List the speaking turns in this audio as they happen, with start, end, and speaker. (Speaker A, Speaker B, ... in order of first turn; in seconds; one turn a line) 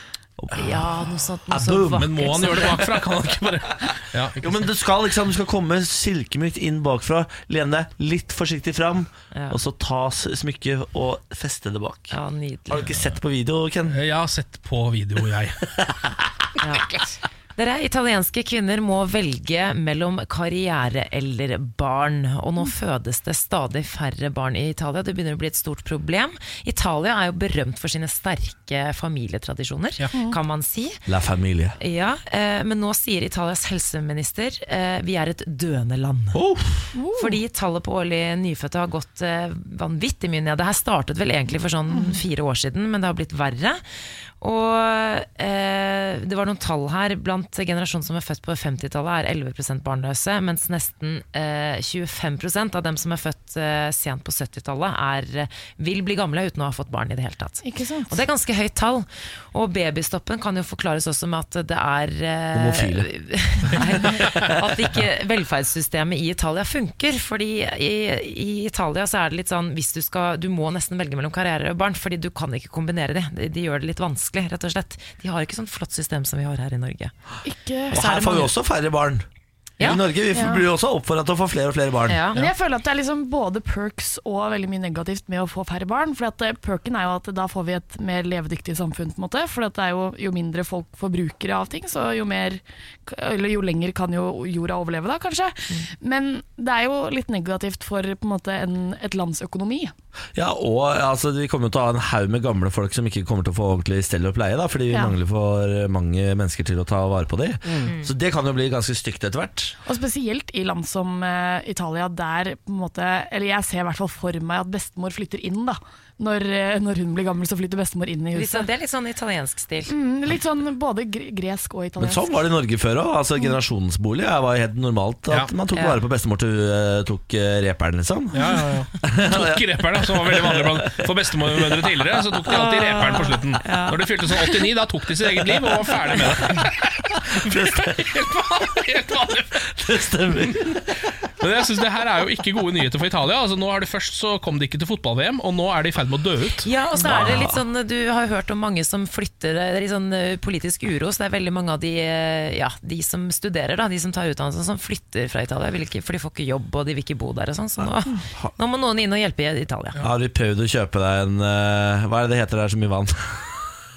Speaker A: 0.4-2.2
Speaker B: 0.6-2.9
Speaker C: 1.9-4.5
Speaker A: 4.4-12.2
Speaker B: 9.3-9.6
Speaker B: 12.1-12.9
Speaker A: 12.7-14.0
Speaker C: 13.9-15.8
Speaker A: 15.9-16.5
Speaker B: 16.6-31.1
Speaker A: 31.1-31.8
Speaker B: 31.8-36.4
Speaker A: 36.4-36.9
Speaker D: 37.0-37.4
Speaker B: 37.1-43.8
Speaker D: 41.9-42.2
Speaker B: 44.4-77.2
Speaker D: 57.6-58.2
Speaker A: 62.5-63.1
Speaker A: 64.0-64.5
Speaker D: 77.4-78.2
Speaker A: 77.9-79.2
Speaker B: 77.9-78.5
Speaker A: 79.8-82.2
Speaker D: 80.3-80.7
Speaker B: 82.1-82.5
Speaker D: 82.3-99.9
Speaker A: 100.4-109.8
Speaker D: 104.9-105.2
Speaker B: 107.8-108.1
Speaker D: 109.8-118.7
Speaker B: 118.3-119.9
Speaker D: 119.9-122.5
Speaker A: 122.0-128.4
Speaker B: 125.7-126.0
Speaker C: 128.3-139.7
Speaker A: 129.0-132.3
Speaker B: 132.5-134.7
Speaker A: 137.3-138.2
Speaker A: 139.7-141.0
Speaker C: 140.4-140.8
Speaker C: 141.4-146.7
Speaker B: 146.6-160.0
Speaker A: 147.0-147.6
Speaker A: 160.0-163.6